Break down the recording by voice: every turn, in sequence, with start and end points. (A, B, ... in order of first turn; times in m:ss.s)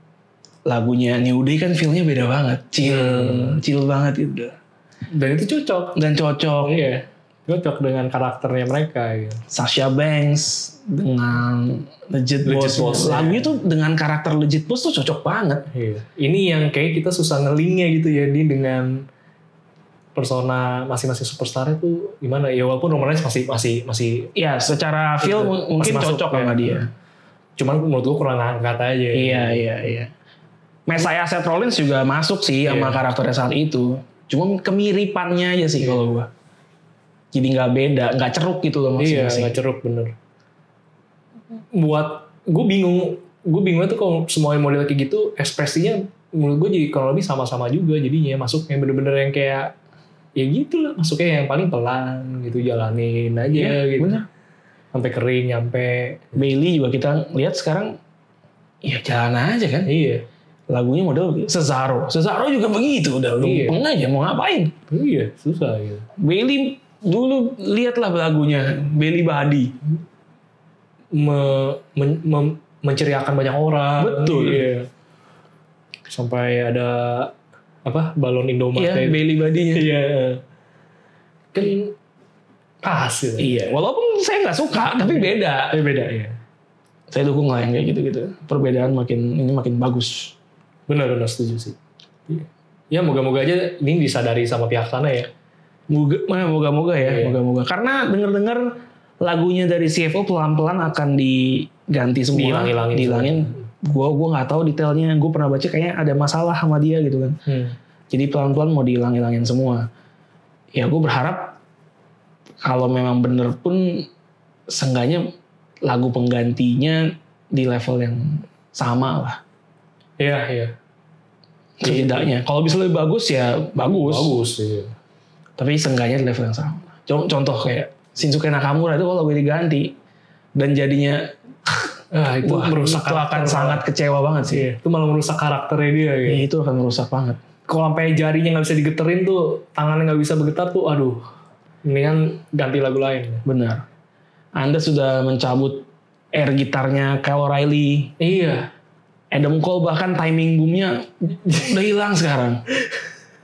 0:00.7-0:04.6 A
0:02.8-0:03.6 B
0:05.1-0:06.0 B
0:06.0-0:06.8 A
0:06.6-0:09.4 B
0:09.5-0:15.7 A
0:12.4-0:13.6 B
0:15.7-0:19.0 B
0:20.1-0:24.3 B
0:24.4-0:26.9 A
0:25.2-0:26.8 B
0:27.6-0:29.7 B
0:29.1-0:30.1 A
0:30.9-0:36.3 A
0:32.7-0:33.0 B
0:35.8-0:36.1 B
0:37.3-0:39.5 A
0:39.0-0:40.1 B
0:41.7-0:49.7 B
0:50.4-0:54.2 B
0:53.5-0:54.3 A
0:54.9-0:56.4 B
0:56.4-0:58.0 A
0:58.8-0:59.9 A
0:59.9-1:00.2 B
1:00.7-1:04.7 A
1:03.4-1:03.8 B
1:04.9-1:06.1 B
1:06.2-1:09.8 A
1:11.1-1:14.9 B
1:14.0-1:14.7 A
1:16.1-1:17.3 B
1:17.8-1:20.4 B
1:18.8-1:19.9 A
1:21.5-1:21.9 B
1:22.8-1:23.6 B
1:23.4-1:25.8 A
1:25.0-1:26.4 B
1:27.1-1:30.3 A
1:30.9-1:31.8 B
1:32.3-1:35.3 B
1:35.9-1:38.7 A
1:37.0-1:37.4 B
1:39.2-1:47.4 A
1:42.3-1:43.7 B
1:47.5-1:47.8 B
1:48.1-1:49.9 A
1:50.7-1:51.6 A
1:52.6-1:54.1 A
1:54.7-1:55.3 A
1:55.8-1:59.4 A
2:00.2-2:00.7 B
2:01.8-2:04.3 A
2:01.8-2:02.3 B
2:03.8-2:04.9 B
2:05.6-2:10.0 A
2:10.6-2:11.3 A
2:12.1-2:13.8 B
2:12.4-2:14.6 A
2:14.5-2:16.4 B
2:16.3-2:17.4 A
2:17.7-2:21.2 B
2:21.8-2:23.4 B
2:23.4-2:23.8 A
2:24.6-2:28.1 A
2:28.2-2:28.7 B
2:29.3-2:32.6 A